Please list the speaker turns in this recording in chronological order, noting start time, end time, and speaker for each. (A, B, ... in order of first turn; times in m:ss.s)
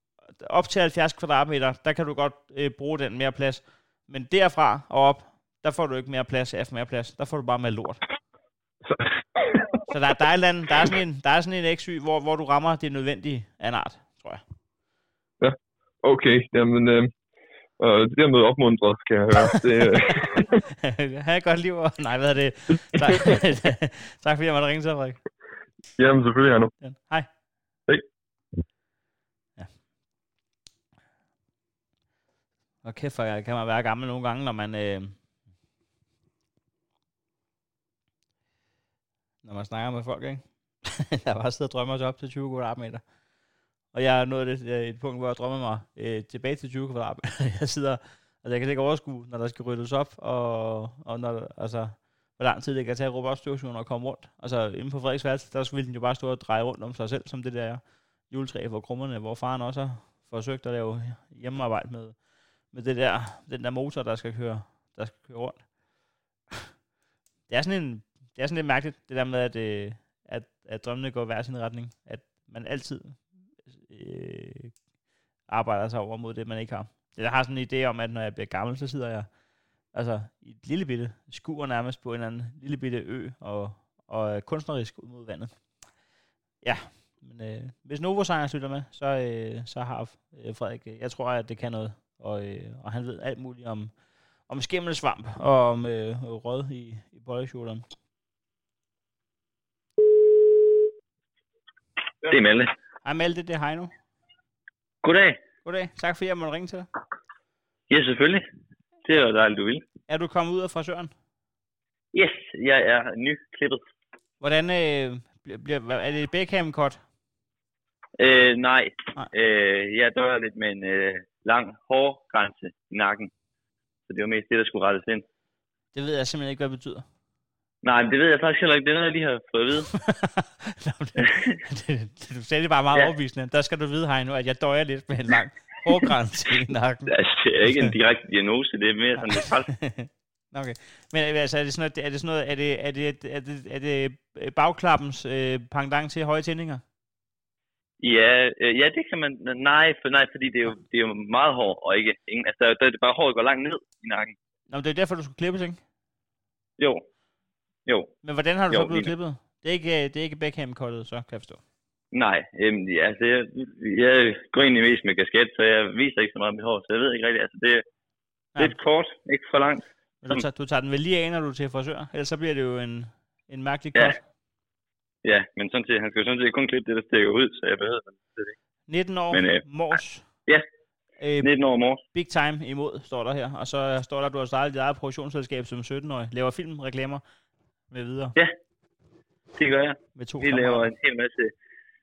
0:00.4-0:08.0 A
0:08.9-0:09.8 B
0:09.9-0:14.4 A
0:15.4-0:17.1 B
0:17.8-0:20.6 B
0:20.8-0:25.2 A
0:26.0-0:26.7 B
0:26.8-0:27.3 A
0:32.8-0:35.2 A
0:39.4-0:43.0 A
0:43.9-1:05.7 A
1:07.5-1:14.8 A
1:15.5-1:19.3 A
1:19.9-1:25.5 A
1:26.6-1:34.0 A
1:34.5-1:37.8 A
1:42.2-1:42.7 C
1:43.0-1:44.0 A
1:45.0-1:45.4 C
1:45.6-1:46.9 A
1:47.9-1:48.4 C
1:49.0-1:49.8 C
1:50.1-1:51.1 A
1:52.1-1:53.8 C
1:54.4-1:57.0 A
1:58.2-2:03.3 C
2:04.1-2:05.2 C
2:05.9-2:07.0 A
2:07.8-2:09.9 C
2:10.0-2:17.1 A
2:11.2-2:11.6 C
2:17.1-2:19.8 C
2:19.2-2:26.8 A
2:28.0-2:34.3 C
2:34.7-2:35.8 A
2:36.8-2:37.0 C
2:37.9-2:38.1 C
2:38.2-2:41.6 A
2:38.7-2:39.1 C
2:42.1-2:47.8 C
2:48.6-2:50.4 C
2:50.2-2:54.2 A
2:55.2-2:58.5 C
2:58.9-3:00.3 A
2:59.3-2:59.6 C
3:01.2-3:01.5 A
3:01.4-3:02.0 C
3:02.1-3:07.2 A
3:07.9-3:08.4 A
3:09.6-3:11.5 C
3:10.2-3:10.9 A